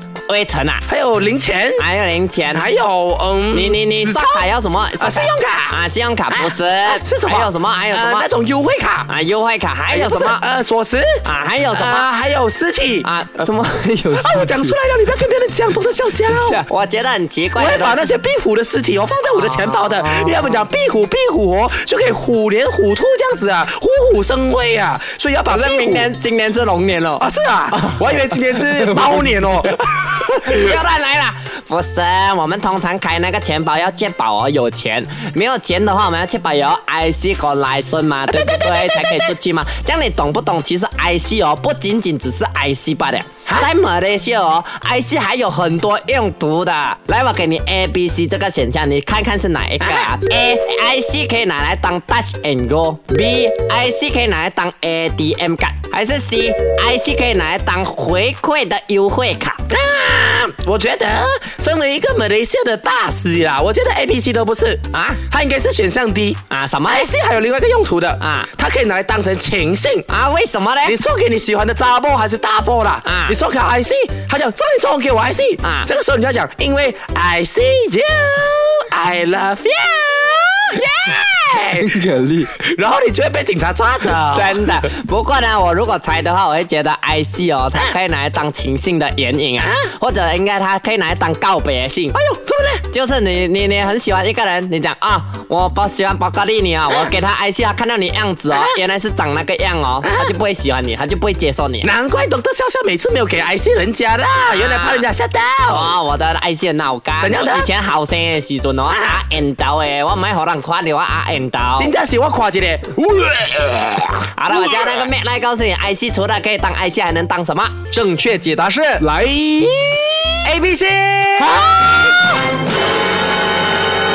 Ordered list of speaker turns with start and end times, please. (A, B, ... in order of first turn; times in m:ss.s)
0:00.3-0:00.8 A
0:00.9-0:01.8 B
0:01.8-0:02.6 A
0:02.5-0:05.8 B
0:03.5-0:08.3 A
0:06.3-0:09.1 B
0:09.1-0:10.4 A
0:09.9-0:13.1 B
0:11.2-0:12.1 A
0:13.0-0:14.8 A
0:14.2-0:16.6 B
0:16.3-0:18.1 A
0:17.6-0:26.1 B
0:19.3-0:20.6 A
0:25.5-0:27.2 A
0:27.2-0:30.8 B
0:28.3-0:29.4 A
0:30.4-0:59.7 A
0:38.3-0:39.3 B
0:49.8-0:50.3 B
0:59.7-1:10.1 B
1:04.9-1:05.2 A
1:06.5-1:07.1 A
1:08.2-1:08.5 A
1:10.1-1:11.0 A
1:10.8-1:24.9 B
1:13.0-1:13.4 A
1:15.6-1:15.9 A
1:21.8-1:22.5 A
1:24.3-1:32.2 A
1:29.6-1:29.9 B
1:32.1-1:32.8 B
1:32.9-1:41.9 A
1:38.5-1:38.8 B
1:40.0-1:40.4 B
1:41.8-1:46.0 B
1:44.5-1:45.1 A
1:45.7-1:51.9 A
1:47.2-1:47.7 B
1:48.9-1:49.2 B
1:51.8-1:55.1 B
1:54.4-1:59.0 A
1:59.0-2:00.3 B
2:00.4-2:01.5 A
2:01.4-2:02.3 B